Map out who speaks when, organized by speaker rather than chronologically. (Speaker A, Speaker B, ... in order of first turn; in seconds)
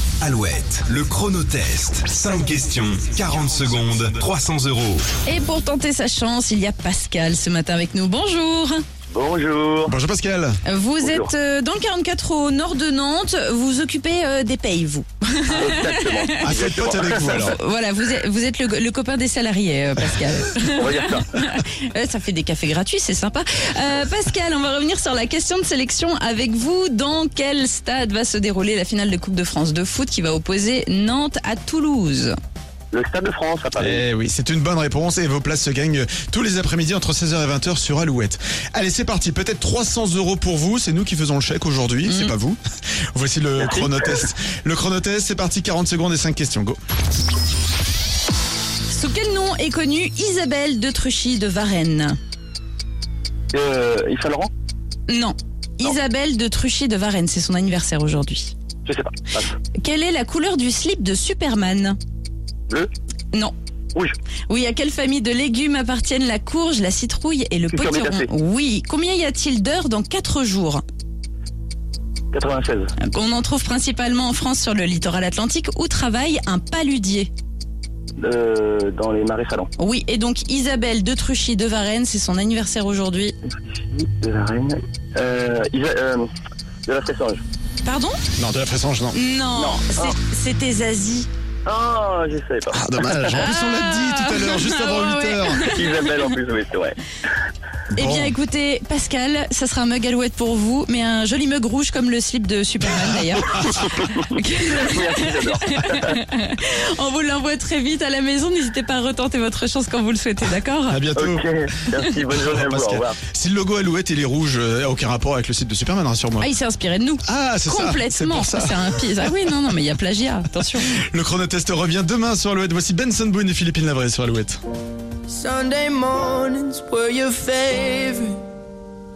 Speaker A: 0.2-5.0
Speaker B: 5.2-8.8, 10.7-16.6, 17.1-32.4, 42.1-42.3, 48.9-52.2, 55.1-58.5, 59.8-62.0, 64.5-70.8, 73.0-77.3, 79.8-83.3, 87.8-88.2, 89.1-91.3, 93.3-96.2, 98.0-111.0, 116.4-120.9
Speaker C: 9.1-10.0, 11.0-11.3, 15.5-17.4, 20.8-21.3, 32.9-34.0, 43.6-44.2, 53.5-54.5, 58.9-59.6, 67.7-68.3, 72.3-72.9, 78.2-79.7, 83.8-86.3, 86.9-87.4, 89.6-90.2, 91.7-93.3, 95.6-97.0, 104.7-106.2, 111.2-113.2
Speaker D: 9.9-10.6, 16.4-17.6, 33.8-42.6, 43.1-46.8, 88.4-89.2, 92.7-95.7, 97.9-98.3, 110.9-111.5, 112.4-116.5, 117.2-118.8, 121.0-124.6
Speaker E: 125.3-128.4